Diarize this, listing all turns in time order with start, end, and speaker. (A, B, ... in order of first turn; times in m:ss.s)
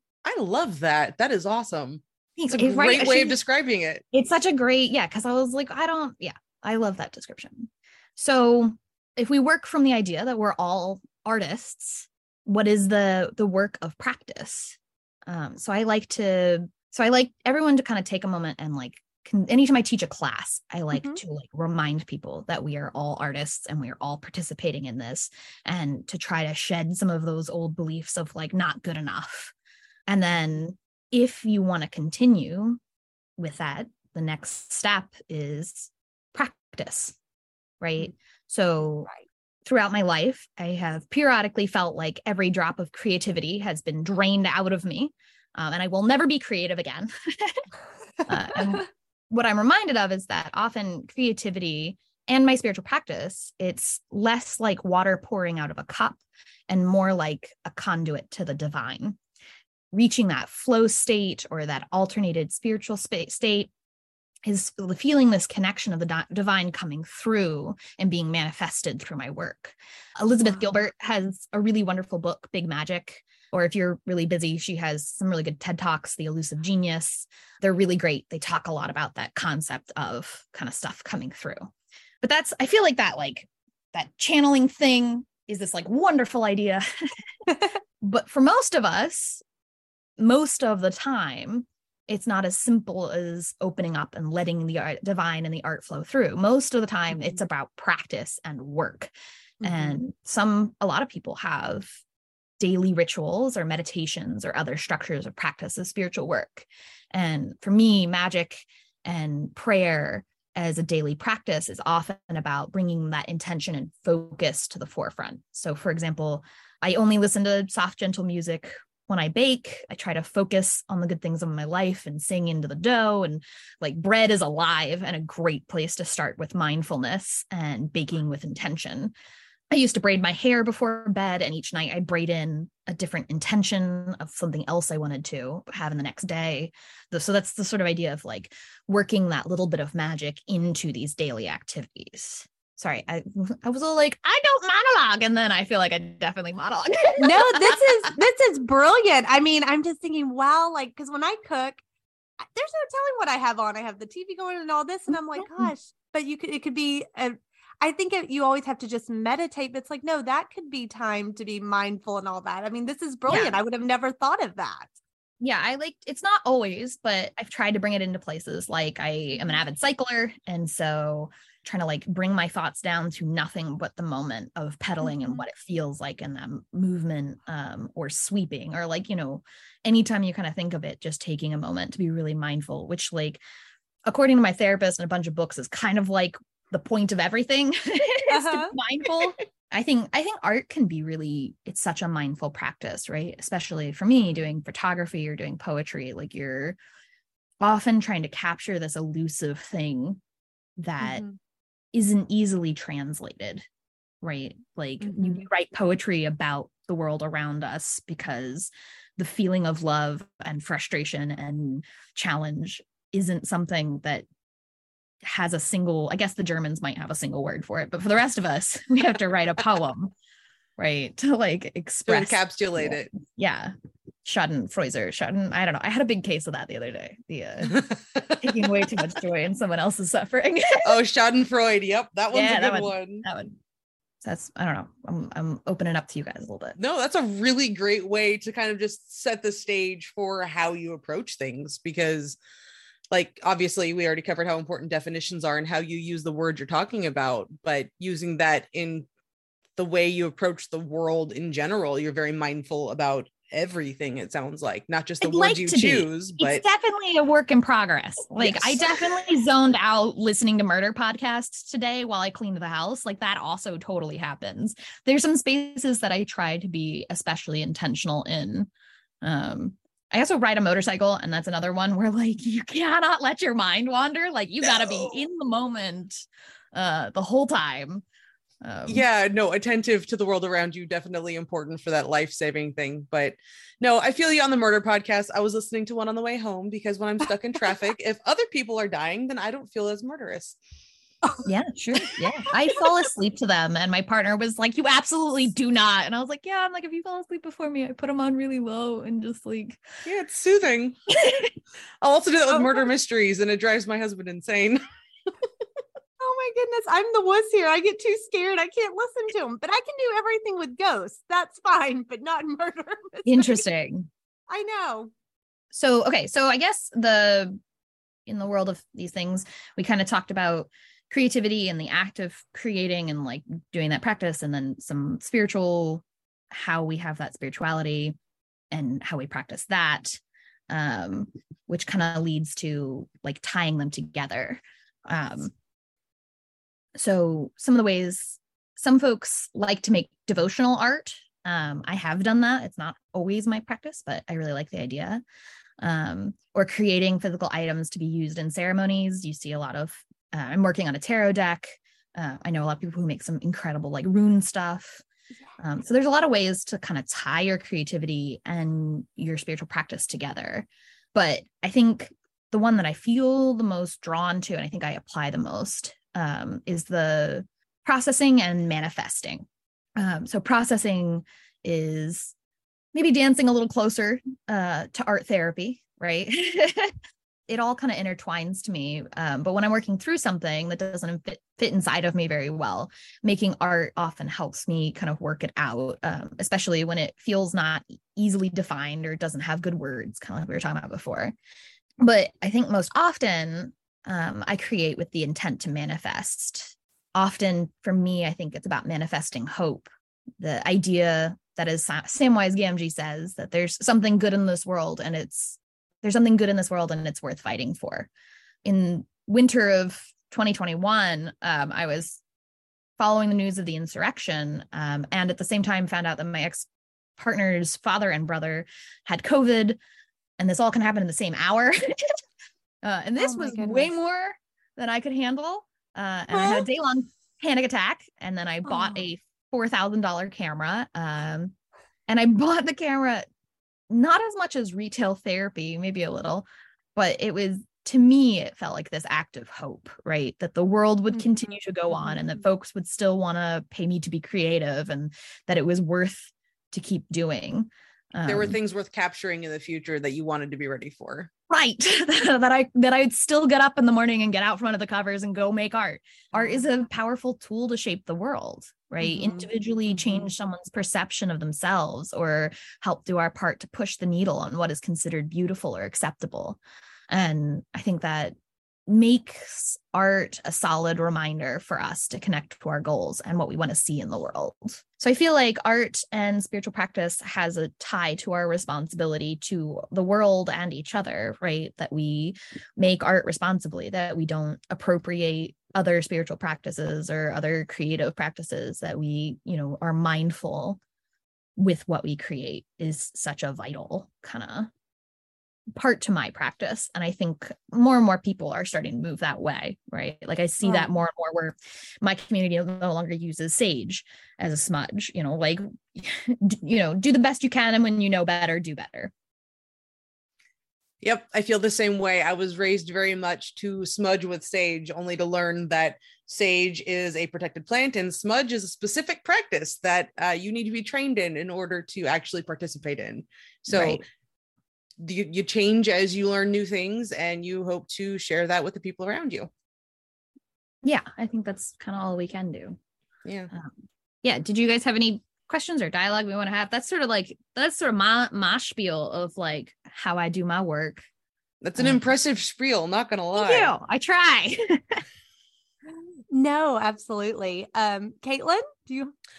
0:00.2-0:04.0 A
0:02.4-0:03.4 B
0:04.1-0:29.5 B
0:20.9-0:21.2 C
0:30.1-0:32.8 B
0:33.4-0:37.2 B
0:37.8-0:39.1 B
0:39.6-0:47.6 B
0:48.3-0:59.2 B
0:48.6-0:48.8 C
0:59.9-1:03.7 B
1:04.4-1:27.2 B
1:10.4-1:10.7 C
1:27.5-1:27.8 C
1:28.0-1:29.4 B
1:30.2-1:39.1 B
1:39.6-1:40.0 C
1:39.6-1:42.0 B
1:42.6-2:09.1 B
2:09.7-2:28.1 B
2:27.2-2:31.8 C
2:32.4-2:44.9 C
2:43.3-2:43.6 B
2:45.4-3:03.4 B
2:55.0-2:55.4 C
3:04.1-3:16.8 B
3:08.3-3:08.8 C
3:17.6-3:20.2 B
3:20.8-3:21.3 B
3:21.0-3:21.4 C
3:21.9-3:23.7 B
3:24.2-3:34.3 B
3:25.0-3:25.4 C
3:35.2-3:40.1 B
3:40.8-3:43.7 B
3:42.1-3:43.1 A
3:44.2-3:51.0 B
3:47.8-3:48.2 A
3:50.8-3:53.2 A
3:52.3-3:53.6 B
3:54.2-3:56.8 B
3:56.8-4:02.4 A
4:03.1-4:09.1 A
4:09.8-4:16.6 A
4:15.2-4:28.7 B
4:18.4-4:19.0 A
4:29.2-4:38.0 B
4:38.6-4:39.1 B
4:38.9-4:50.6 A
4:51.4-4:59.9 B
4:52.0-4:52.8 C
5:00.0-5:01.0 A
5:01.1-5:01.5 B
5:02.0-5:04.9 A
5:02.5-5:02.9 C
5:06.2-5:13.6 C
5:13.2-5:14.1 B
5:14.5-5:15.1 C
5:15.7-5:17.6 B
5:18.3-5:28.2 B
5:28.7-5:35.5 B
5:37.0-5:45.2 B
5:45.8-5:55.0 B
5:55.6-6:09.5 B
6:10.0-6:12.3 B
6:12.9-6:17.0 B
6:17.5-6:31.4 B
6:32.0-6:48.1 B
6:48.6-6:52.2 B
6:53.0-6:59.8 B
7:00.4-7:02.2 B
7:02.8-7:11.6 B
7:03.2-7:03.9 C
7:06.3-7:06.7 C
7:08.7-7:09.1 C
7:12.1-7:13.3 B
7:13.9-7:28.6 B
7:21.1-7:22.2 C
7:28.3-7:31.3 A
7:31.5-7:46.6 B
7:36.4-7:36.6 C
7:39.0-7:39.5 C
7:40.0-7:40.3 C
7:47.1-8:10.8 B
8:11.6-8:14.7 B
8:15.8-8:29.1 B
8:20.6-8:20.9 C
8:31.0-8:44.0 A
8:43.7-8:44.0 B
8:45.0-8:49.5 A
8:50.8-8:52.8 B
8:53.2-8:53.5 A
8:54.2-9:01.0 B
9:01.6-9:03.7 A
9:01.8-9:02.1 B
9:03.4-9:05.0 B
9:06.3-9:09.1 C